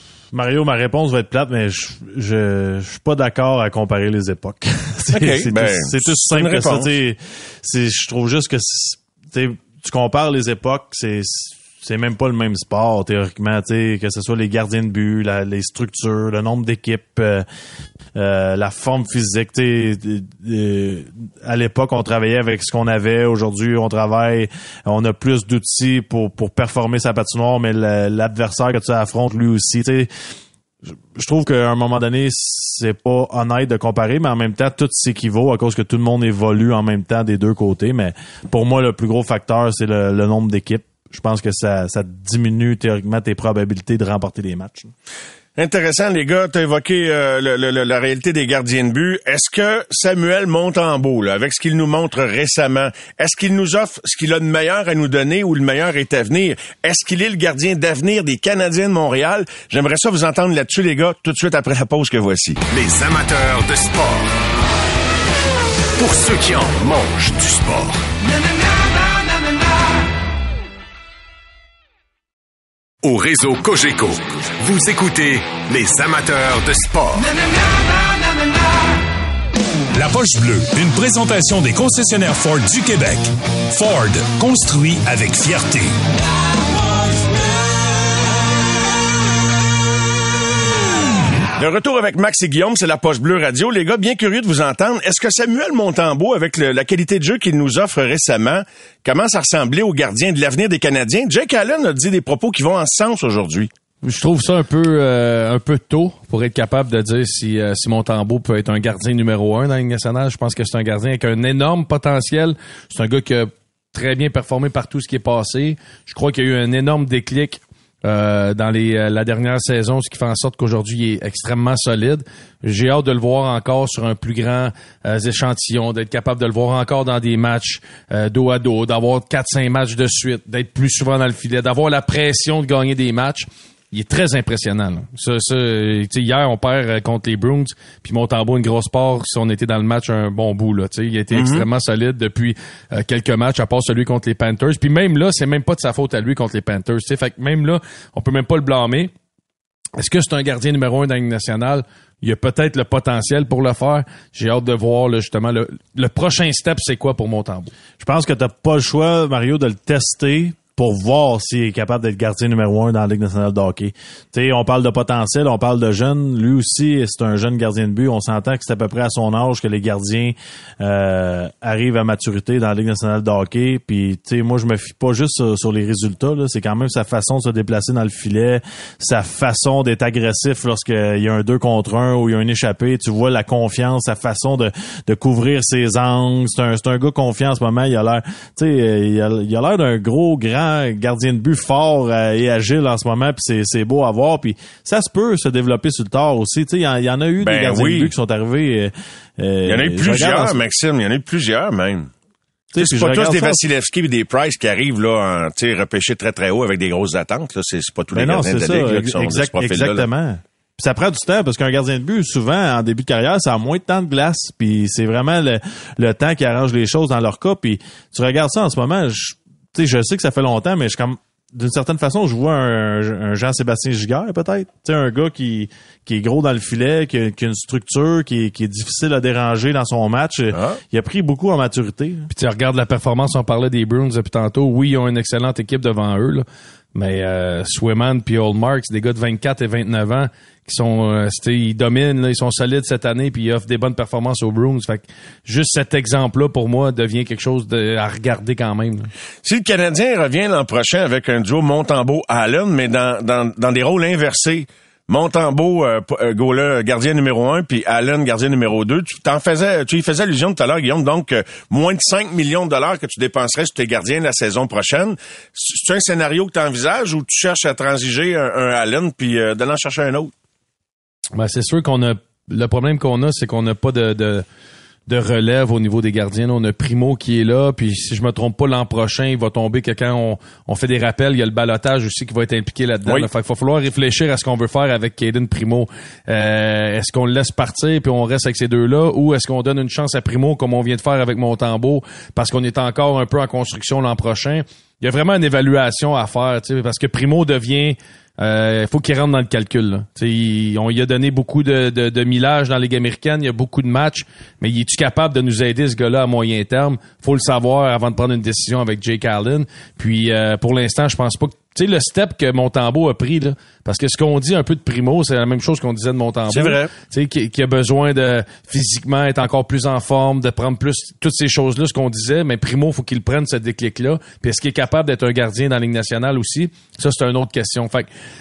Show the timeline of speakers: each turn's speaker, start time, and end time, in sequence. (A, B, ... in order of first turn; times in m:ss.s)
0:00.3-0:17.5 A
0:05.1-0:06.9 B
0:18.2-0:30.1 A
0:31.2-0:44.9 A
0:45.6-1:02.6 B
1:02.7-1:04.3 C
1:06.0-1:08.0 C
1:13.0-1:17.3 C
1:19.9-1:26.0 D
1:31.6-1:43.7 B
1:44.0-2:29.1 E
2:21.3-2:21.6 B
2:30.0-2:37.7 E
2:38.0-3:20.6 A
3:17.4-3:18.1 B
3:19.7-3:22.1 B
3:22.7-3:23.6 A
3:22.8-3:30.1 B
3:28.1-3:52.3 A
3:50.5-3:50.8 B
3:52.3-4:09.1 E
4:09.4-4:30.3 B
4:31.4-4:34.5 E
4:35.1-5:28.1 E
5:16.5-5:16.9 B